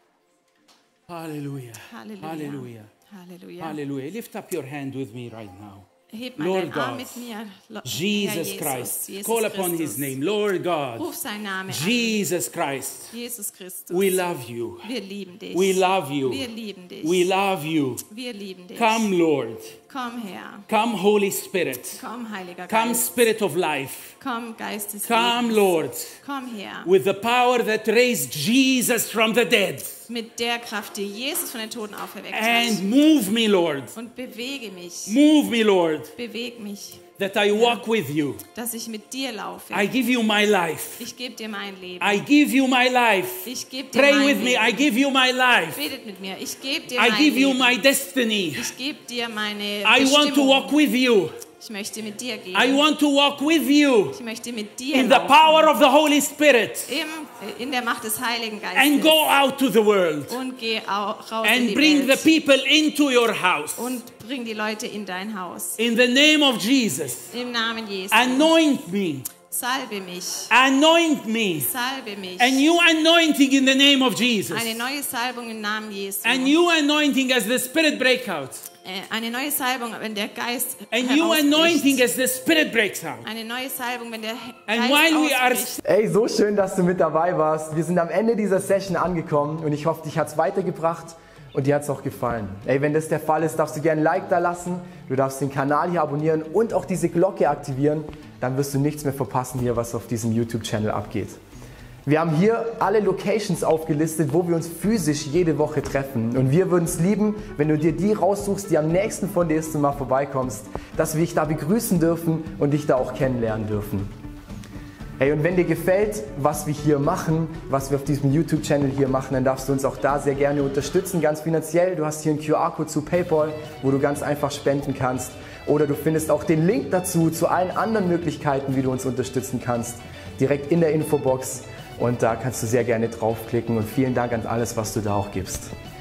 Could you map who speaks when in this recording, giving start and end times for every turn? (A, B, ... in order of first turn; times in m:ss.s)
0:01.1-0:02.9 A
0:01.9-0:03.8 B
0:03.6-0:07.3 A
0:06.1-0:10.2 B
0:07.8-0:11.1 A
0:11.0-0:12.2 B
0:11.7-0:13.2 A
0:13.1-0:17.3 B
0:13.9-0:14.9 A
0:15.5-0:16.5 A
0:17.0-0:18.0 A
0:18.1-0:19.1 B
0:18.7-0:19.8 A
0:19.9-0:20.7 B
0:20.7-0:22.0 A
0:21.9-0:23.1 B
0:22.7-0:24.2 A
0:24.2-0:26.9 B
0:25.0-0:26.2 A
0:26.8-0:30.1 A
0:30.1-0:32.8 B
0:32.3-0:34.0 A
0:33.9-0:35.2 B
0:35.0-0:36.2 A
0:36.2-0:37.8 B
0:37.2-0:38.4 A
0:38.5-0:40.0 B
0:39.7-0:41.1 A
0:41.0-0:42.2 B
0:42.0-0:45.9 A
0:43.4-0:44.9 B
0:45.7-0:47.8 B
0:46.9-0:48.7 A
0:48.5-0:50.8 B
0:49.8-0:51.4 A
0:51.6-0:52.8 B
0:52.5-0:54.2 A
0:54.1-0:55.7 B
0:54.9-0:57.0 A
0:56.8-0:59.2 B
0:58.7-1:00.4 A
1:00.3-1:02.4 B
1:01.4-1:04.0 A
1:03.8-1:05.8 B
1:05.8-1:07.4 A
1:07.3-1:08.5 B
1:08.1-1:09.3 A
1:09.4-1:10.5 B
1:10.5-1:11.7 A
1:11.5-1:12.6 B
1:12.4-1:14.8 A
1:14.5-1:16.6 B
1:16.2-1:18.7 A
1:18.8-1:22.0 B
1:20.9-1:23.3 A
1:23.2-1:25.8 B
1:24.7-1:25.8 A
1:25.8-1:41.4 C
1:42.0-1:54.1 C
1:55.2-2:15.7 C